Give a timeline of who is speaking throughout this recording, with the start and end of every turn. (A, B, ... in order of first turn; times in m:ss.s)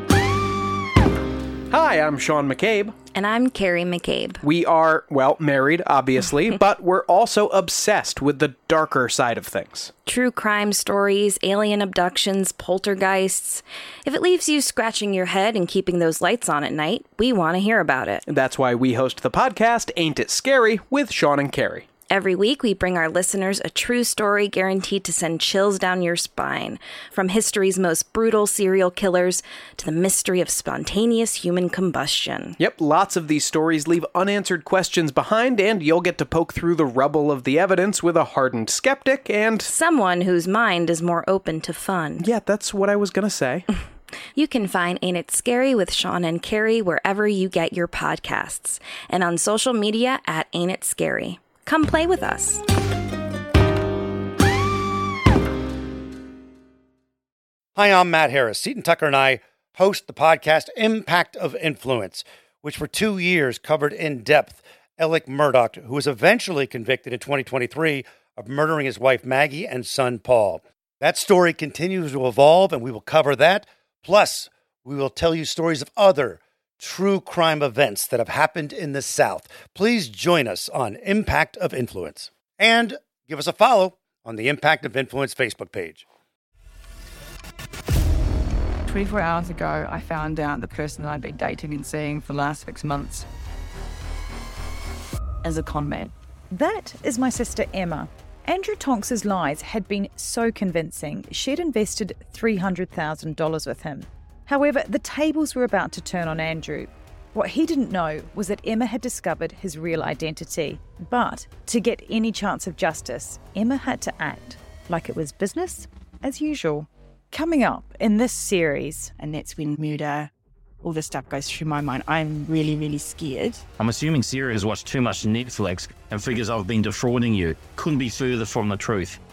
0:01.7-0:02.9 A
0:03.1-0:04.4 B
0:04.4-0:09.9 A
0:10.0-0:18.2 B
0:18.3-0:21.8 A
0:22.1-0:32.6 B
0:32.6-0:39.7 A
0:39.7-0:42.2 B
0:42.2-0:43.6 A
0:44.3-0:52.6 B
0:57.8-1:26.0 C
1:28.9-1:33.2 D
1:35.4-1:36.1 D
1:36.5-1:59.1 E
1:59.2-2:00.3 D
2:00.8-2:03.6 D
2:03.8-2:09.2 F